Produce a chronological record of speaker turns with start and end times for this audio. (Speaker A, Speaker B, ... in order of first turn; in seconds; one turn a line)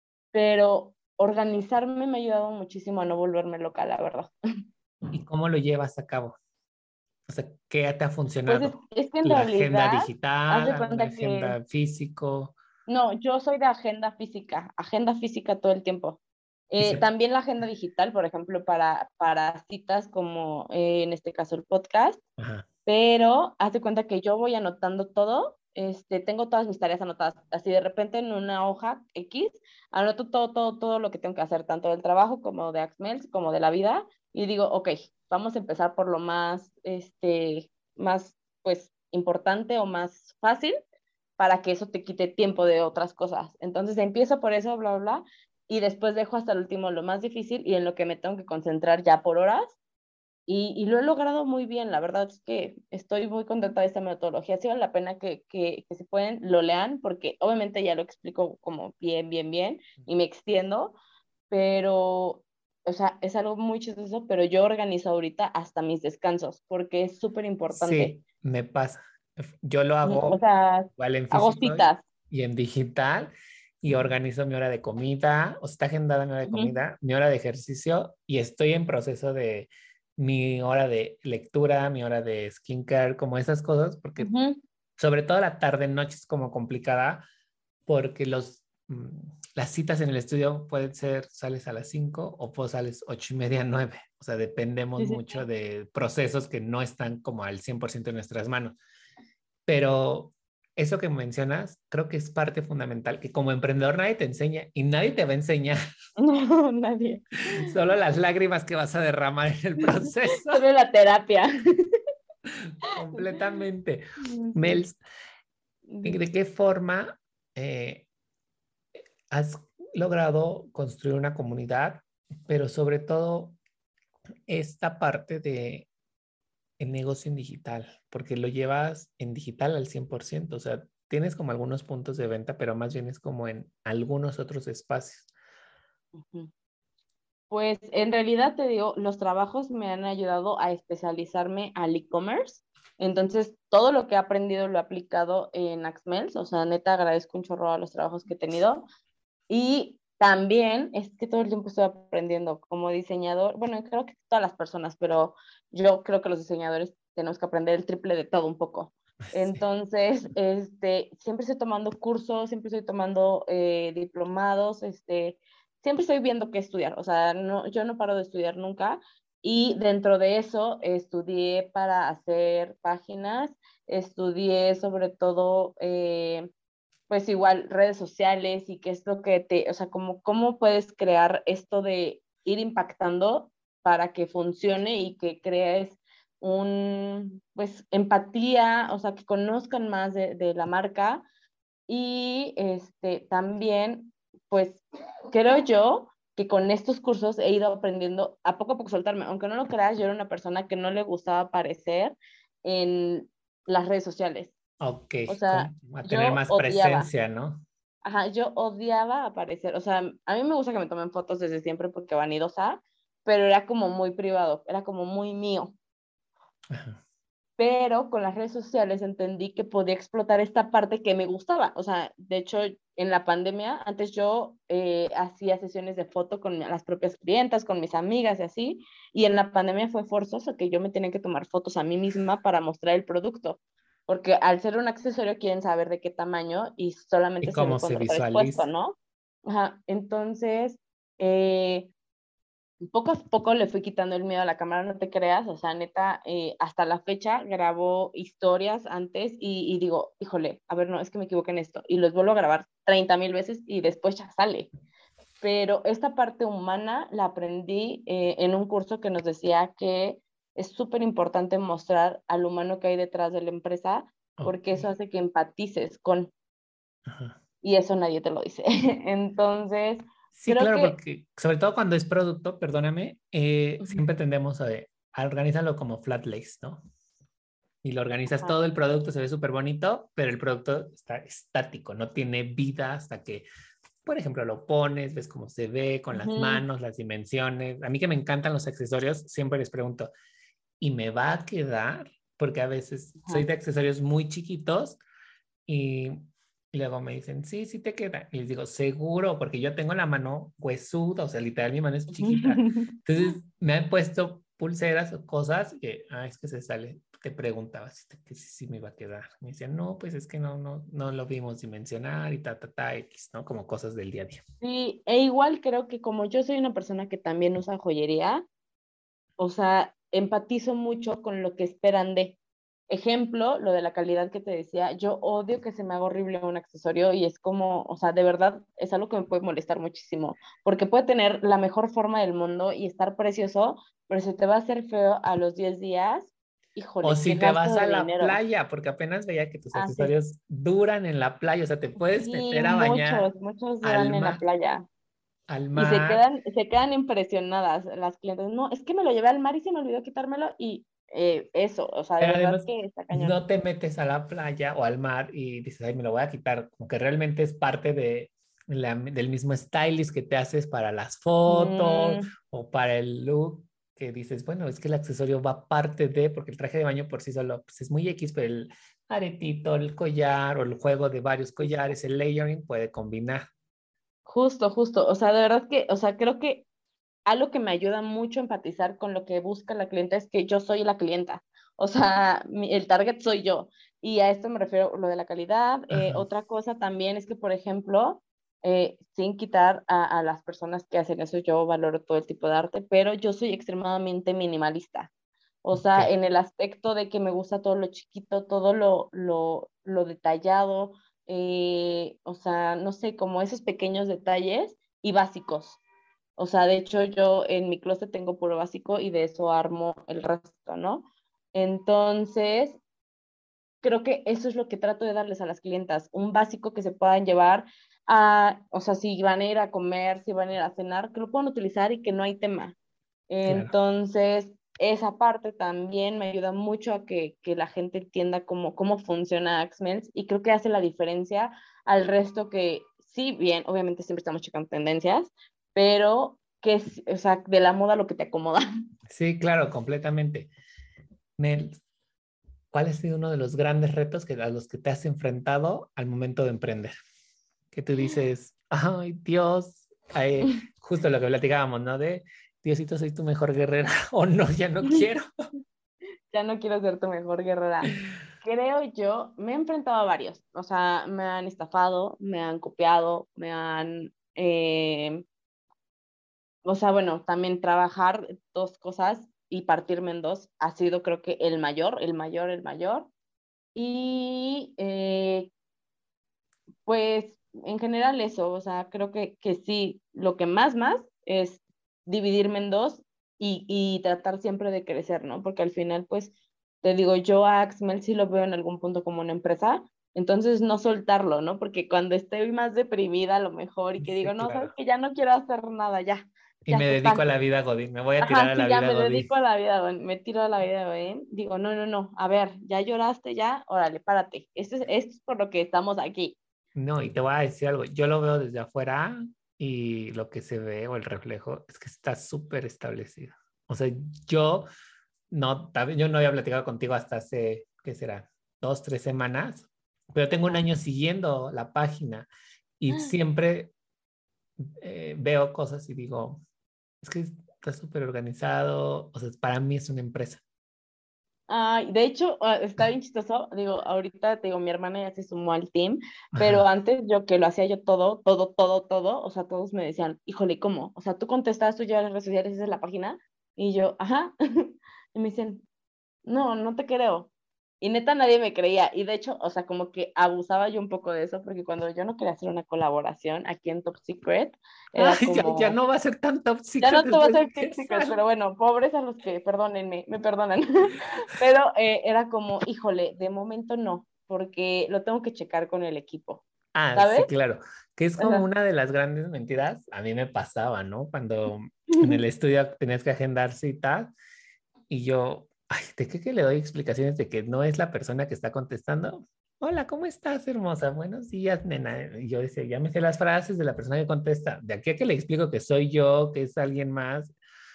Speaker A: 0.3-4.3
Speaker B: 5.1-6.4
Speaker B: 7.3-12.6
Speaker A: 8.4-11.5
Speaker A: 12.9-22.2
Speaker B: 16.8-17.0
Speaker B: 22.4-22.6
Speaker A: 22.9-40.7
Speaker A: 41.4-49.8
Speaker A: 50.5-61.0
Speaker A: 61.5-68.1
Speaker B: 67.7-70.4
Speaker A: 70.0-72.0
Speaker B: 71.0-84.3
Speaker A: 76.5-76.7
Speaker A: 84.2-84.6
Speaker B: 85.0-87.2
Speaker B: 87.9-98.8
Speaker A: 95.0-95.4
Speaker B: 99.7-105.8
Speaker A: 106.2-107.7
Speaker B: 107.5-110.6
Speaker A: 110.5-112.0
Speaker B: 112.6-114.0
Speaker A: 114.3-114.8
Speaker B: 114.5-115.0
Speaker A: 115.9-116.2
Speaker B: 116.0-118.0
Speaker B: 119.3-123.6
Speaker B: 124.5-125.9
Speaker B: 126.8-135.3
Speaker A: 136.2-136.5
Speaker A: 137.5-148.8
Speaker A: 149.5-176.5
Speaker A: 177.1-191.2
Speaker A: 191.9-204.5
Speaker B: 204.8-207.6
Speaker A: 205.3-207.1
Speaker A: 208.0-215.7
Speaker B: 216.7-217.0
Speaker A: 217.6-241.9
Speaker B: 237.4-238.7
Speaker A: 242.8-254.7
Speaker A: 255.4-266.3
Speaker B: 264.4-264.9
Speaker B: 267.1-267.4
Speaker A: 267.6-270.9
Speaker B: 270.3-276.8
Speaker B: 277.8-283.4
Speaker B: 284.0-290.1
Speaker A: 286.1-286.6
Speaker B: 290.8-295.0
Speaker B: 295.6-314.4
Speaker A: 302.1-302.8
Speaker A: 314.6-318.4
Speaker A: 319.4-322.4
Speaker A: 322.9-338.4
Speaker B: 337.0-343.3
Speaker A: 339.7-340.1
Speaker A: 342.1-344.8
Speaker B: 343.8-344.4
Speaker B: 345.5-346.2
Speaker A: 345.8-353.4
Speaker B: 352.2-373.5
Speaker A: 361.5-362.3
Speaker A: 374.2-376.6
Speaker A: 377.3-395.1
Speaker B: 385.9-386.2
Speaker A: 395.6-405.8
Speaker B: 395.7-396.1
Speaker A: 406.4-412.8
Speaker A: 413.8-422.8
Speaker A: 423.3-438.6
Speaker B: 423.4-423.7
Speaker B: 439.1-440.5
Speaker B: 441.4-441.8
Speaker B: 442.7-446.9
Speaker B: 447.7-455.2
Speaker A: 456.3-465.2
Speaker A: 466.6-473.1
Speaker A: 473.7-475.5
Speaker A: 476.9-497.2
Speaker B: 494.0-494.7
Speaker B: 496.6-499.3
Speaker A: 498.2-506.4
Speaker B: 506.8-514.6
Speaker B: 515.3-522.3
Speaker B: 522.8-523.7
Speaker B: 524.6-526.4
Speaker B: 527.0-530.4
Speaker A: 531.5-545.6
Speaker B: 536.4-536.6
Speaker A: 546.2-547.3
Speaker A: 547.8-555.8
Speaker B: 555.0-558.1
Speaker A: 556.8-566.4
Speaker B: 566.7-574.1
Speaker A: 566.9-567.3
Speaker A: 568.2-568.4
Speaker B: 574.9-587.3